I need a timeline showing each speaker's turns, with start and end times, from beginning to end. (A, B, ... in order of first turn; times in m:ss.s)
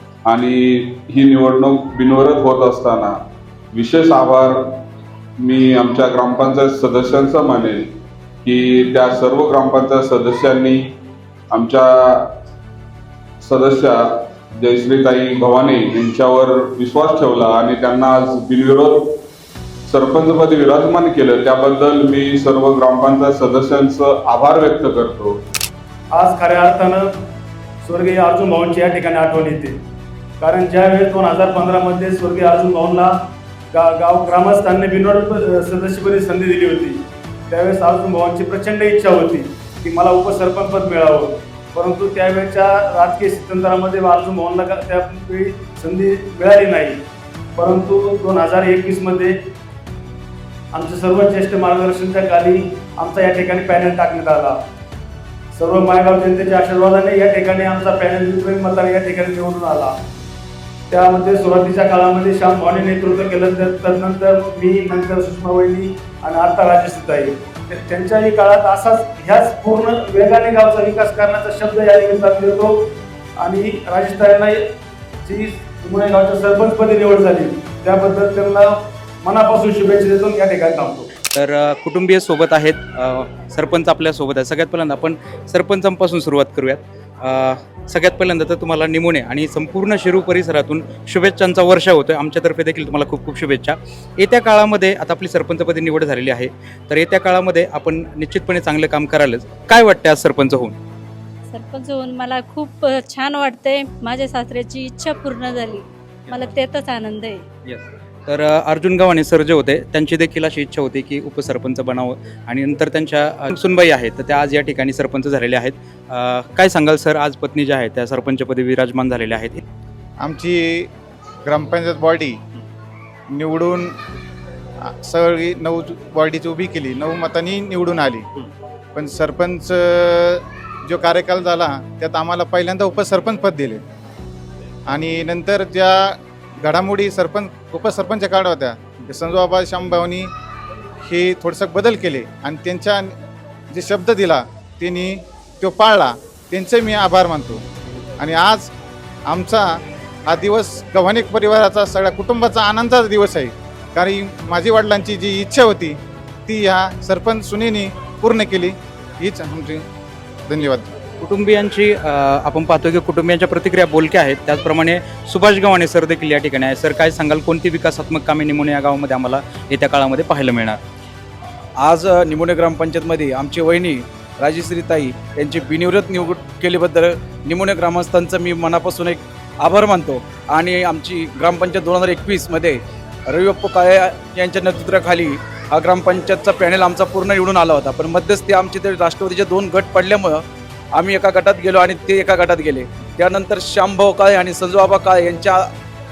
0:00.2-0:03.2 A
0:03.7-0:04.6 A
0:05.4-0:07.9 A
0:08.4-0:10.8 A
0:11.5-0:12.2 A
0:13.4-0:14.0 A
0:14.6-0:19.2 A
0:19.9-0:25.4 A
0:26.1-0:27.3 B
0:27.8-0:29.8 B
0:30.4-0:47.0 B
0:47.6-0:49.5 B
0:50.7-0:54.6 B
0:55.5-1:00.0 B
1:00.9-1:21.1 B
1:21.3-1:40.7 C
1:41.5-1:47.4 D
1:47.7-1:59.6 C
2:00.2-2:00.9 E
2:01.4-2:02.4 E
2:03.3-2:04.0 E
2:04.8-2:08.3 E
2:09.0-2:13.8 E
2:14.9-2:20.3 E
2:21.0-2:23.2 E
2:23.7-2:27.6 E
2:28.2-2:28.7 E
2:29.3-2:29.7 E
2:30.3-2:39.8 E
2:40.5-2:40.9 E
2:41.2-2:50.8 C
2:51.8-3:15.7 F